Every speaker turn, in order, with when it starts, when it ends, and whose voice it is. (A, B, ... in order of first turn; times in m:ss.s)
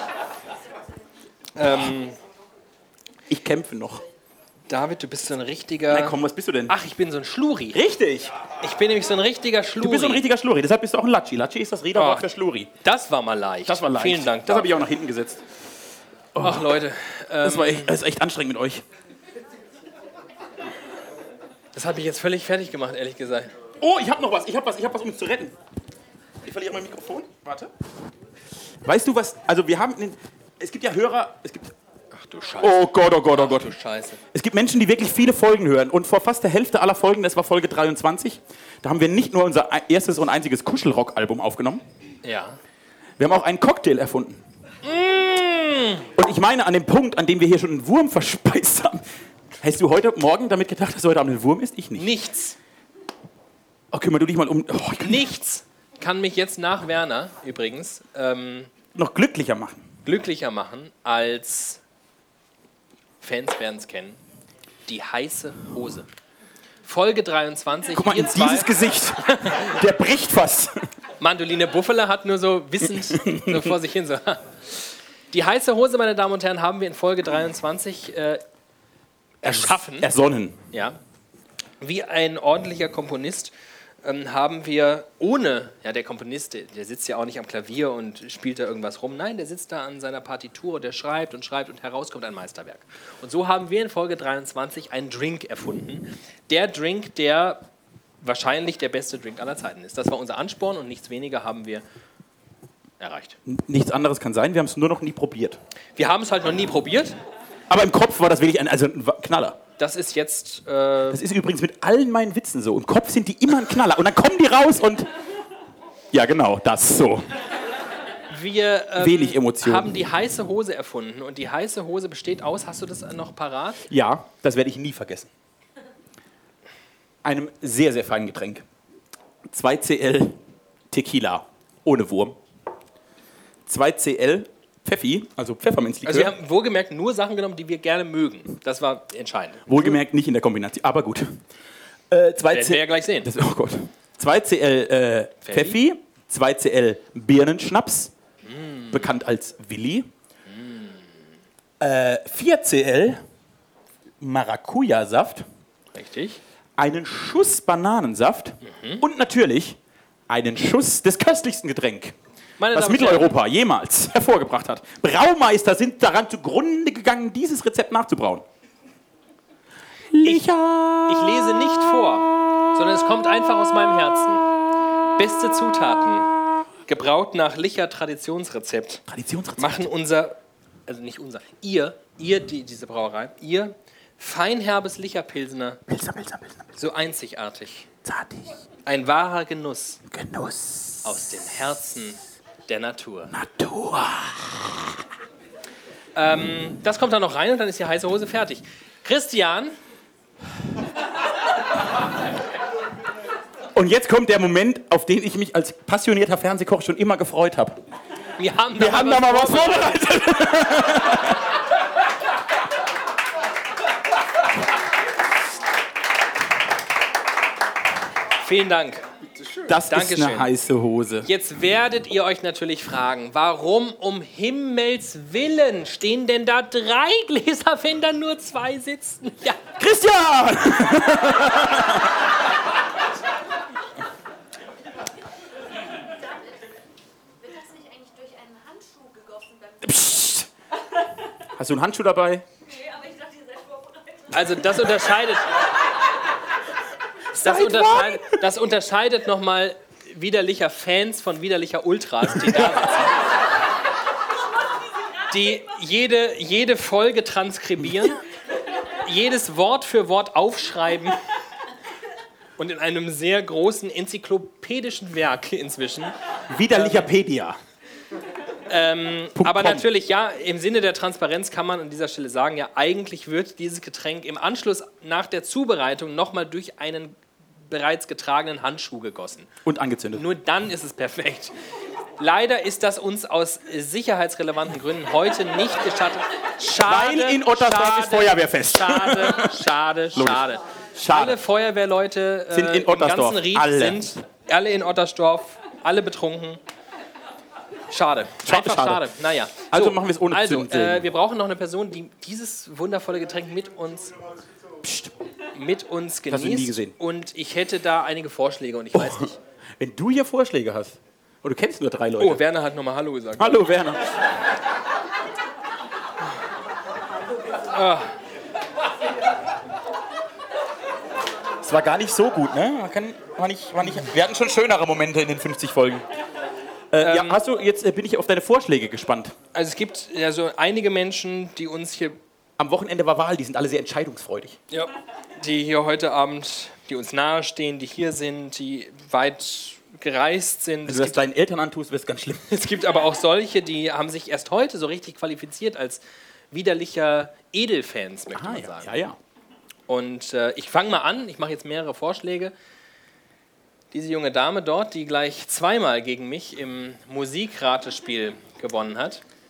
0:01.6-0:02.2 A
0:03.3-0:04.0 B
0:04.7-0:07.8 A
0:05.9-0:06.7 B
0:07.7-0:08.3 B
0:08.6-0:10.2 A
0:09.8-0:12.7 B
0:12.0-0:12.2 A
0:12.8-0:14.8 A
0:13.6-0:15.4 B
0:16.3-0:16.7 B
0:16.4-0:17.9 A
0:17.4-0:18.8 B
0:21.7-0:23.5 A
0:23.8-0:25.5 B
0:26.4-0:27.7 B
0:28.8-0:31.7 B
0:32.1-0:34.2 A
0:32.6-0:33.7 B
0:34.3-0:41.8 B
0:42.2-0:42.6 A
0:43.2-0:44.4 B
0:44.8-0:46.1 A
0:46.2-0:49.0 B
0:49.6-0:52.1 B
0:52.0-0:52.6 A
0:53.9-0:55.3 B
0:55.0-0:58.7 A
0:58.9-0:59.8 B
1:00.0-1:01.8 A
1:03.2-1:04.2 A
1:04.9-1:06.1 A
1:06.8-1:09.7 A
1:07.9-1:10.8 B
1:11.2-1:14.8 A
1:13.1-1:13.7 B
1:15.3-1:18.4 A
1:19.4-1:20.1 A
1:19.4-1:20.6 B
1:20.7-1:21.0 A
1:21.8-1:37.7 A
1:38.2-1:41.8 A
1:43.0-1:43.4 A
1:43.4-1:45.6 B
1:46.0-1:47.2 A
1:47.7-1:49.6 B
1:49.8-1:51.2 A
1:51.1-1:55.1 B
1:56.1-1:57.3 B
1:58.3-2:03.8 A
1:59.0-1:59.9 B
2:03.9-2:05.3 B
2:07.2-2:08.6 B
2:09.5-2:10.4 B
2:10.9-2:12.4 B
2:13.7-2:16.3 B
2:16.0-2:20.0 A
2:19.6-2:21.4 B
2:22.1-2:28.1 B
2:22.5-2:23.3 A
2:25.4-2:25.8 A
2:28.4-2:29.0 A
2:28.9-2:30.1 B
2:30.5-2:31.0 A
2:31.8-2:33.2 B
2:34.2-2:35.4 B
2:35.9-2:36.4 A
2:36.8-2:39.8 B
2:38.6-2:39.0 A
2:40.3-2:42.2 B
2:42.6-2:43.4 A
2:42.7-2:48.4 B
2:50.1-2:51.8 B
2:51.1-2:54.5 A
2:55.2-2:56.3 A
2:56.8-2:59.0 A
2:59.1-2:59.9 B
2:59.6-3:05.8 A
3:05.9-3:06.7 B
3:06.8-3:07.9 A
3:08.0-3:08.6 B
3:08.8-3:10.0 A
3:10.1-3:11.2 B
3:11.0-3:13.3 A
3:13.3-3:15.0 B
3:16.1-3:19.8 A
3:23.7-3:27.8 B
3:28.4-3:30.0 A
3:28.7-3:31.4 B
3:38.4-3:39.0 A
3:39.6-3:41.3 B
3:39.8-3:40.5 A
3:41.2-3:49.6 A
3:49.8-3:52.2 B
3:57.4-3:59.8 C
3:59.8-4:00.5 B
4:01.6-4:02.4 B
4:02.8-4:03.8 C
4:04.3-4:05.5 A
4:07.3-4:08.4 B
4:07.4-4:13.2 A
4:15.3-4:18.2 A
4:19.0-4:21.2 A
4:22.6-4:26.1 A
4:26.5-4:27.6 B
4:26.7-4:27.1 A
4:28.7-4:39.5 A
4:29.4-4:29.8 B
4:39.6-4:40.2 B
4:40.1-4:41.5 A
4:42.2-4:56.6 A
4:46.8-4:51.4 B
4:52.5-4:54.1 B
4:57.9-5:04.1 A
4:58.4-4:59.0 B
4:59.7-5:01.1 B
5:04.8-5:05.1 B
5:05.5-5:09.4 A
5:06.3-5:06.9 B
5:08.9-5:09.2 B
5:09.8-5:12.4 B
5:12.2-5:13.6 A
5:13.4-5:14.0 B
5:17.7-5:18.1 A
5:21.6-5:26.0 B
5:26.9-5:29.3 B
5:27.0-5:27.4 A
5:29.5-5:32.2 A
5:32.6-5:34.6 B
5:34.7-5:41.2 A
5:40.8-5:42.5 B
5:42.5-5:49.0 A
5:48.3-5:49.2 B
5:49.9-5:52.5 A
5:53.9-5:59.2 A